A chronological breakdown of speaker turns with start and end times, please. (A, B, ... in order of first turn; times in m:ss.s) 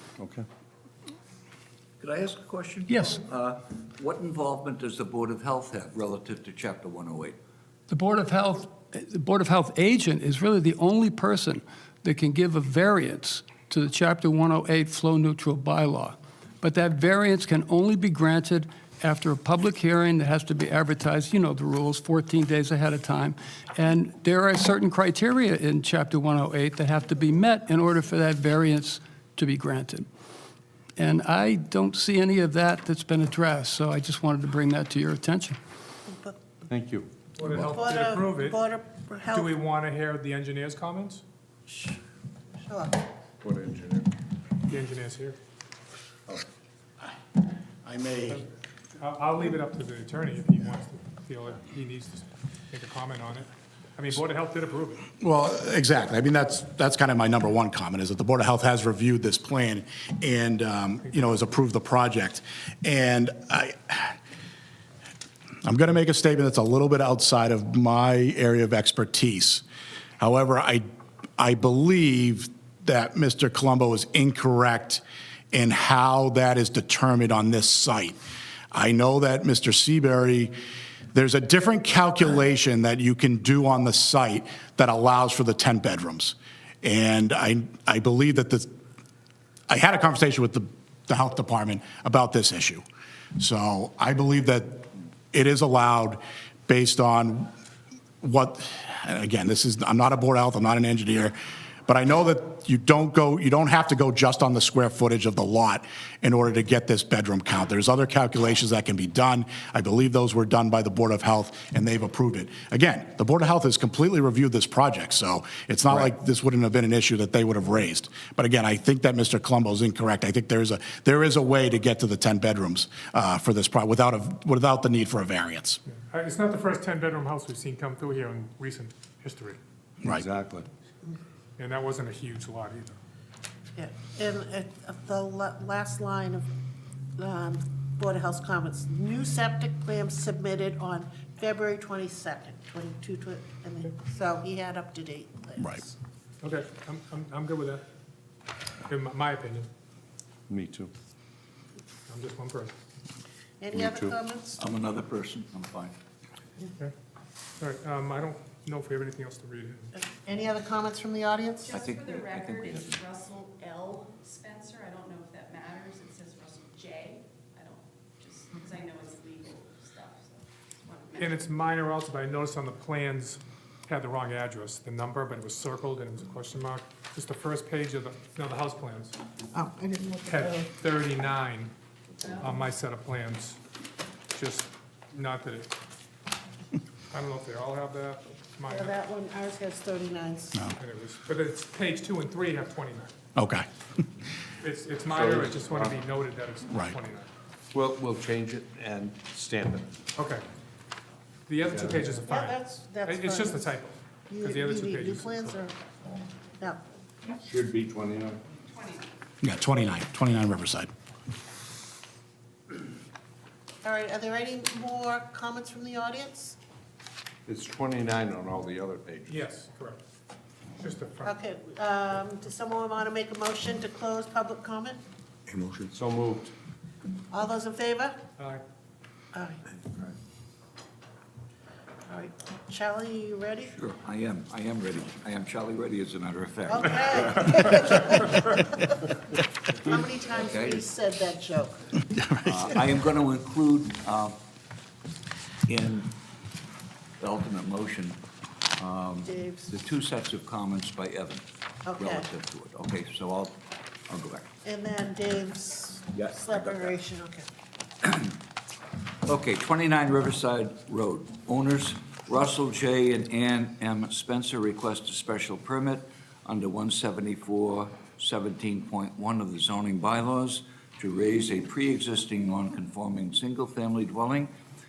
0:00.2-0:00.4 A
0:02.0-0:07.4 B
0:02.9-0:03.2 C
0:07.9-0:30.0 C
0:31.0-0:35.6 C
0:36.1-0:36.3 D
0:36.7-0:37.1 A
0:37.4-0:38.6 E
0:37.5-0:39.6 D
0:39.3-0:41.2 E
0:41.7-0:42.0 D
0:42.6-0:43.0 D
0:43.4-0:44.1 A
0:44.7-0:45.4 E
0:47.8-0:48.4 F
0:49.0-0:55.0 E
0:55.2-1:04.1 F
1:01.0-1:01.4 E
1:05.6-1:09.6 F
1:10.2-1:10.8 F
1:11.4-1:15.0 F
1:15.5-1:18.2 F
1:18.7-1:20.5 F
1:21.1-1:28.7 F
1:29.7-1:32.8 F
1:33.4-1:37.5 F
1:38.2-1:41.3 F
1:41.9-2:05.8 F
2:05.9-2:09.6 E
2:10.0-2:10.6 A
2:11.6-2:13.0 E
2:13.8-2:16.5 D
2:17.2-2:25.9 D
2:26.4-2:27.8 E
2:28.9-2:29.7 E
2:30.5-2:30.9 A
2:32.1-2:32.7 E
2:33.6-2:34.6 D
2:33.7-2:34.2 A
2:34.6-2:35.9 B
2:37.6-2:39.9 E
2:39.9-2:41.9 D
2:41.7-2:43.1 B
2:41.8-2:51.3 G
2:51.2-2:59.2 E
2:59.5-3:00.7 D
3:00.3-3:01.7 E
3:02.4-3:03.6 E
3:04.3-3:05.7 E
3:07.1-3:08.9 E
3:08.7-3:10.7 D
3:10.8-3:13.1 E
3:13.4-3:13.6 F
3:14.6-3:17.3 E
3:15.1-3:16.0 A
3:17.7-3:19.9 A
3:20.2-3:20.4 E
3:21.5-3:25.6 E
3:21.7-3:22.0 A
3:22.2-3:23.7 D
3:24.3-3:25.8 D
3:27.4-3:28.4 A
3:29.4-3:30.9 F
3:33.8-3:36.6 D
3:37.4-3:39.4 A
3:39.3-3:40.0 E
3:40.8-3:41.4 E
3:41.2-3:45.0 D
3:45.5-3:46.5 A
3:47.3-3:48.2 D
3:48.4-3:48.6 E
3:49.3-3:49.6 D
3:52.1-3:53.7 D
3:53.7-3:57.6 B
3:56.7-3:59.1 D
3:59.8-4:01.8 D
4:00.4-4:00.8 B
4:02.1-4:02.7 F
4:02.4-4:04.4 B
4:05.7-4:06.1 B
4:07.2-4:08.2 B
4:08.8-4:11.4 B
4:09.2-4:09.8 D
4:11.8-4:12.3 D
4:12.0-4:13.6 B
4:14.1-4:14.5 B
4:14.6-4:17.4 D
4:16.2-4:16.9 B
4:19.2-4:34.5 B